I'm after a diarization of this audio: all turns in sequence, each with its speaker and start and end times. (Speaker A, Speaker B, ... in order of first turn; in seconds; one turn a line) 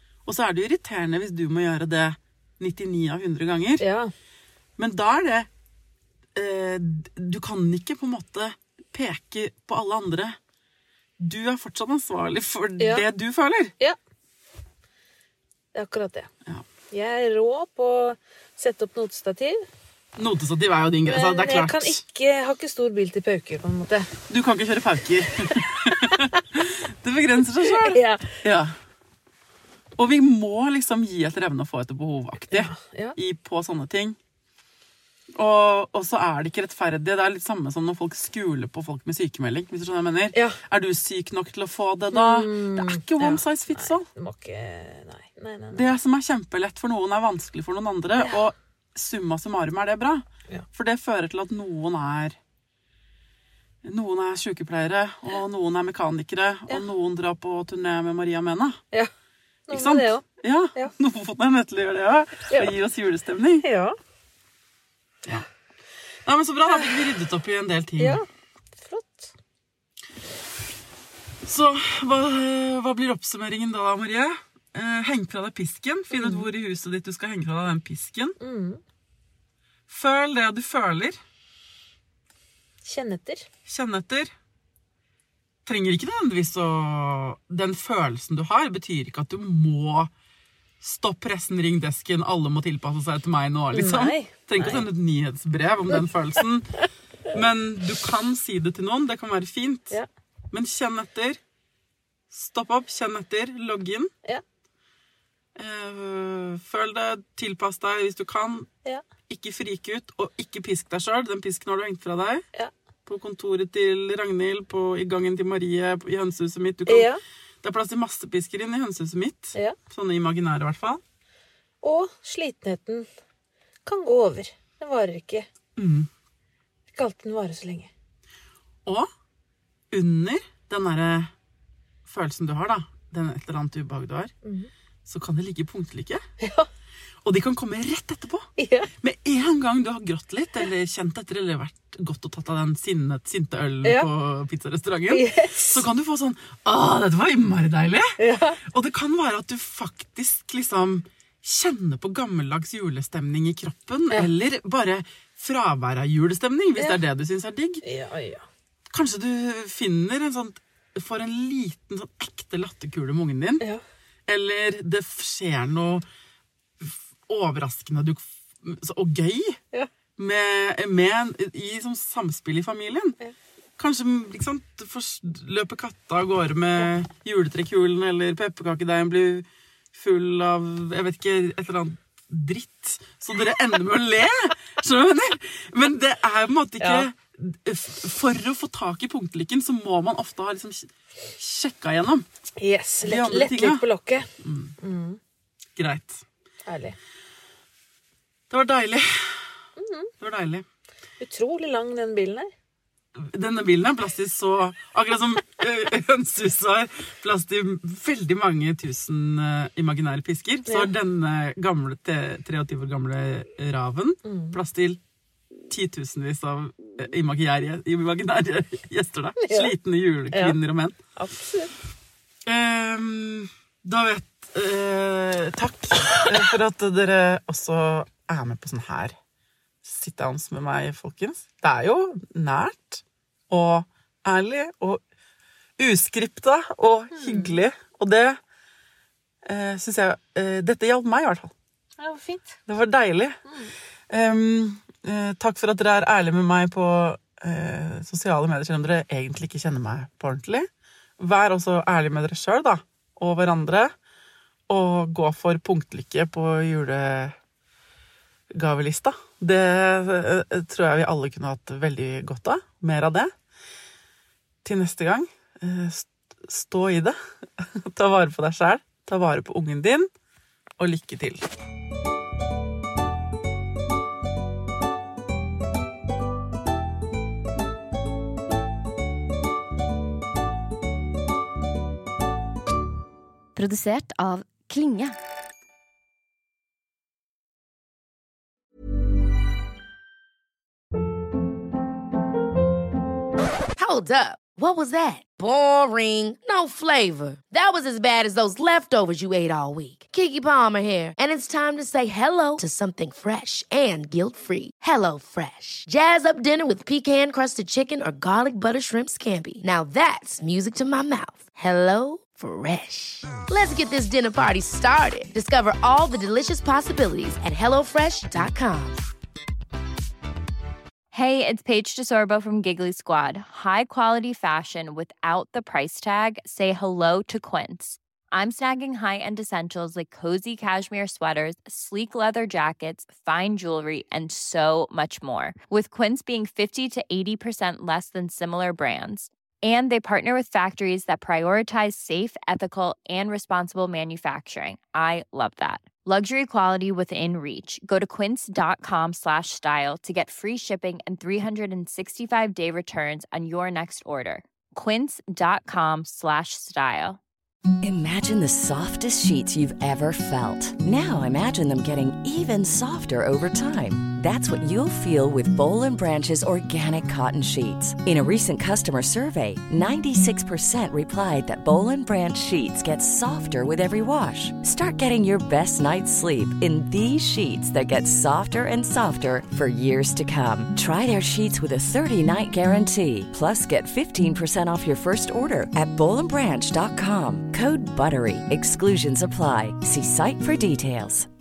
Speaker A: 0.2-3.9
Speaker B: 3.8-4.1
Speaker A: 4.8-5.5
Speaker A: 6.3-10.4
Speaker A: 11.2-13.7
Speaker B: 12.8-13.1
Speaker B: 15.7-16.3
Speaker B: 16.9-19.6
Speaker A: 20.2-22.0
Speaker B: 21.1-24.1
Speaker A: 24.3-28.8
Speaker B: 25.5-26.2
Speaker B: 27.6-28.4
Speaker A: 30.0-34.2
Speaker B: 32.5-33.2
Speaker A: 35.4-44.1
Speaker B: 40.3-40.6
Speaker B: 42.1-45.9
Speaker A: 45.7-52.4
Speaker A: 53.8-58.8
Speaker B: 59.7-60.2
Speaker A: 59.7-63.7
Speaker B: 63.6-64.0
Speaker A: 66.2-68.2
Speaker B: 68.0-68.2
Speaker B: 68.8-69.3
Speaker A: 71.4-78.4
Speaker B: 76.1-76.5
Speaker B: 78.4-78.8
Speaker A: 79.9-81.2
Speaker B: 82.8-83.5
Speaker A: 83.7-84.3
Speaker A: 85.7-90.1
Speaker A: 90.8-96.7
Speaker B: 93.7-94.9
Speaker A: 97.3-100.0
Speaker A: 100.5-101.4
Speaker A: 102.3-104.1
Speaker A: 105.6-108.7
Speaker A: 109.3-112.5
Speaker A: 113.1-117.1
Speaker B: 116.9-117.2
Speaker A: 117.6-121.0
Speaker B: 121.8-123.1
Speaker B: 123.9-125.5
Speaker A: 125.8-126.1
Speaker B: 126.9-127.9
Speaker A: 129.9-131.3
Speaker A: 132.1-134.3
Speaker B: 134.4-134.7
Speaker A: 135.1-136.2
Speaker B: 136.4-136.7
Speaker A: 137.2-157.8
Speaker B: 138.6-138.9
Speaker B: 143.8-144.1
Speaker B: 145.1-145.8
Speaker B: 148.2-148.6
Speaker B: 157.8-158.4
Speaker A: 158.9-163.6
Speaker A: 164.3-166.1
Speaker A: 166.8-169.6
Speaker A: 170.2-173.2
Speaker A: 173.8-192.2
Speaker B: 186.8-187.1
Speaker B: 192.6-194.3
Speaker A: 193.0-193.8
Speaker A: 194.4-194.8
Speaker B: 194.8-195.2
Speaker A: 195.8-196.2
Speaker B: 196.7-197.0
Speaker A: 198.5-199.5
Speaker B: 199.8-200.1
Speaker A: 200.2-200.7
Speaker B: 201.2-202.5
Speaker A: 203.2-215.0
Speaker B: 214.2-214.6
Speaker A: 215.7-221.0
Speaker B: 219.4-219.7
Speaker B: 220.3-220.6
Speaker B: 221.2-221.7
Speaker A: 222.4-229.2
Speaker B: 226.2-226.4
Speaker A: 229.8-235.0
Speaker A: 235.8-238.4
Speaker B: 237.1-237.6
Speaker A: 239.4-241.5
Speaker B: 242.0-242.6
Speaker A: 242.7-243.4
Speaker B: 243.4-243.7
Speaker A: 244.1-250.7
Speaker A: 251.2-253.9
Speaker A: 254.7-257.4
Speaker A: 258.5-263.3
Speaker A: 264.6-270.1
Speaker A: 270.8-271.5
Speaker C: 283.6-284.6
Speaker D: 293.8-319.0
Speaker C: 321.1-357.2
Speaker E: 357.8-391.3